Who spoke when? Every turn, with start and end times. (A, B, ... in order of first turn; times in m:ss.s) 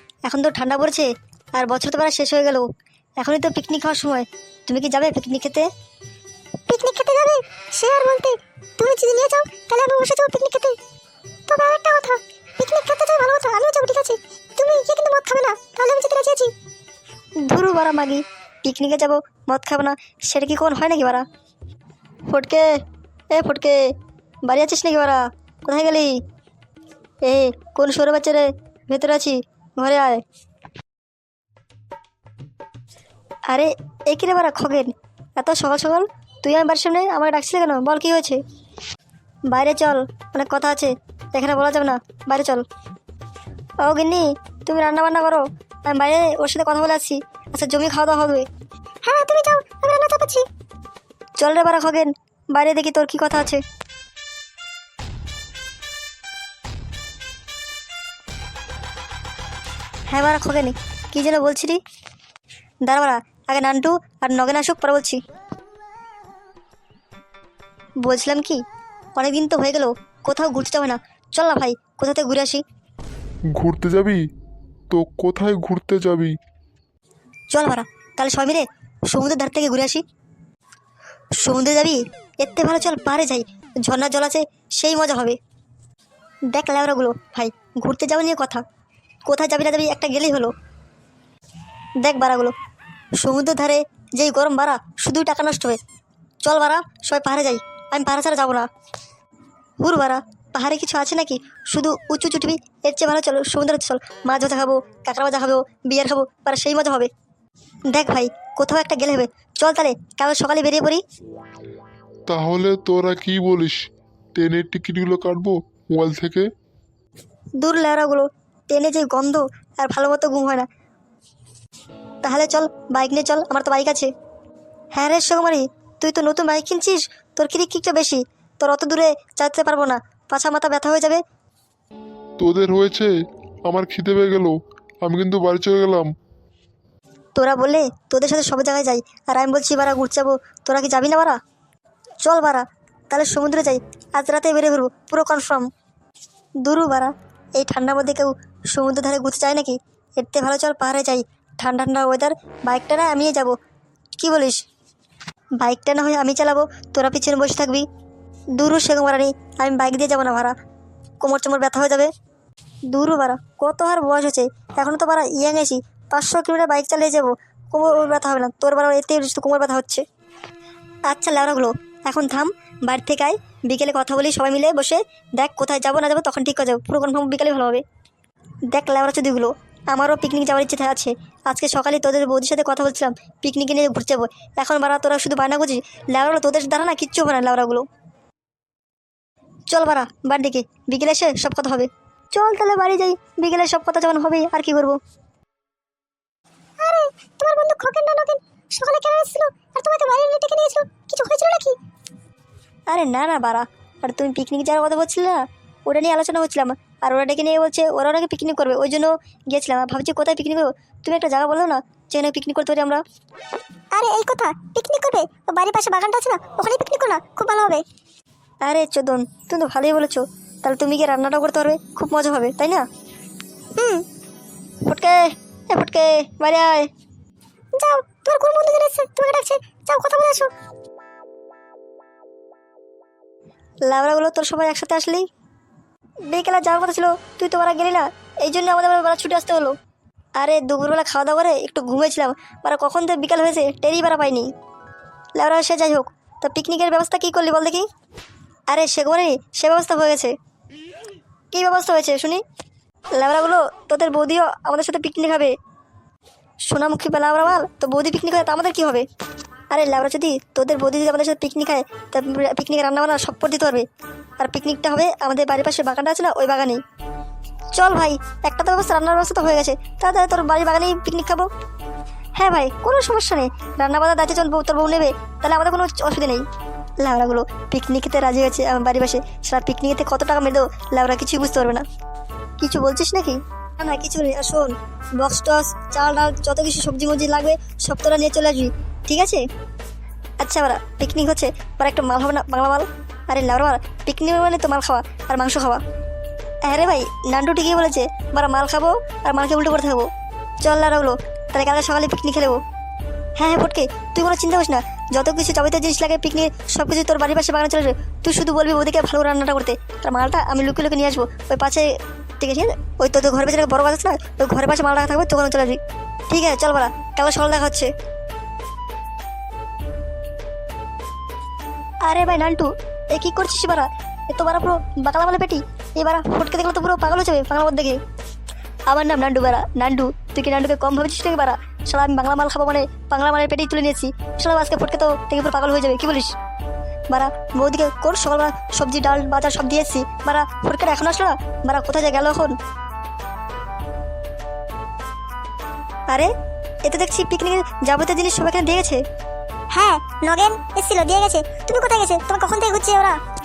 0:00.2-0:02.7 A
0:03.2-0:05.7 A
0:06.7-0:10.8 B
0:11.5-0:16.5 B
0:17.4-0:21.2 A
0:22.3-0:22.7 A
0:23.3-0:23.9 A
0:24.4-0:26.2 A
0:27.2-0:30.2 A
0:33.5-0:38.4 A
0:39.5-0:42.6 A
0:43.8-0:48.5 A
0:49.0-0:50.4 B
0:51.4-0:53.6 A
1:00.1-1:01.8 A
1:02.8-1:05.2 A
1:08.0-1:08.6 A
1:09.2-1:12.6 A
1:13.5-1:14.3 C
1:14.9-1:16.4 C
1:17.5-1:20.0 A
1:21.4-1:25.4 A
1:26.5-1:28.6 A
1:29.3-1:30.5 A
1:32.0-1:32.5 A
1:33.2-1:35.8 A
1:36.4-1:38.7 A
1:39.8-1:47.1 A
1:47.9-1:51.0 A
1:52.3-1:53.8 C
1:54.3-1:56.5 C
1:57.6-2:00.7 A
2:02.2-2:04.1 A
2:04.9-2:11.2 A
2:12.4-2:13.1 C
2:13.6-2:16.1 C
2:17.4-2:21.4 A
2:22.2-2:25.7 A
2:26.6-2:33.6 A
2:34.2-2:34.6 A
2:35.6-2:37.9 A
2:38.6-2:40.6 A
2:41.2-2:42.1 A
2:42.9-2:50.0 A
2:51.1-2:57.8 A
2:58.7-3:07.9 A
3:09.7-3:15.0 A
3:16.8-3:21.8 B
3:22.9-3:33.0 A
3:33.9-3:37.8 B
3:38.6-3:42.8 A
3:43.8-3:44.0 B
3:44.8-3:46.9 A
3:47.8-3:50.5 B
3:53.9-3:55.3 A
3:56.3-3:59.8 A
4:00.4-4:04.5 A
4:05.4-4:07.9 A
4:08.7-4:10.3 A
4:11.5-4:12.4 A
4:13.2-4:15.5 A
4:16.7-4:19.1 A
4:19.7-4:23.8 A
4:24.4-4:26.8 A
4:27.8-4:31.5 A
4:32.4-4:36.4 A
4:37.0-4:41.8 A
4:42.6-4:49.4 A
4:50.4-4:55.8 A
4:56.7-5:00.1 A
5:00.6-5:02.6 A
5:03.4-5:17.9 A
5:22.1-5:28.0 A
5:28.9-5:36.3 A
5:37.1-5:42.6 A
5:46.8-5:49.0 A
5:49.7-5:53.2 B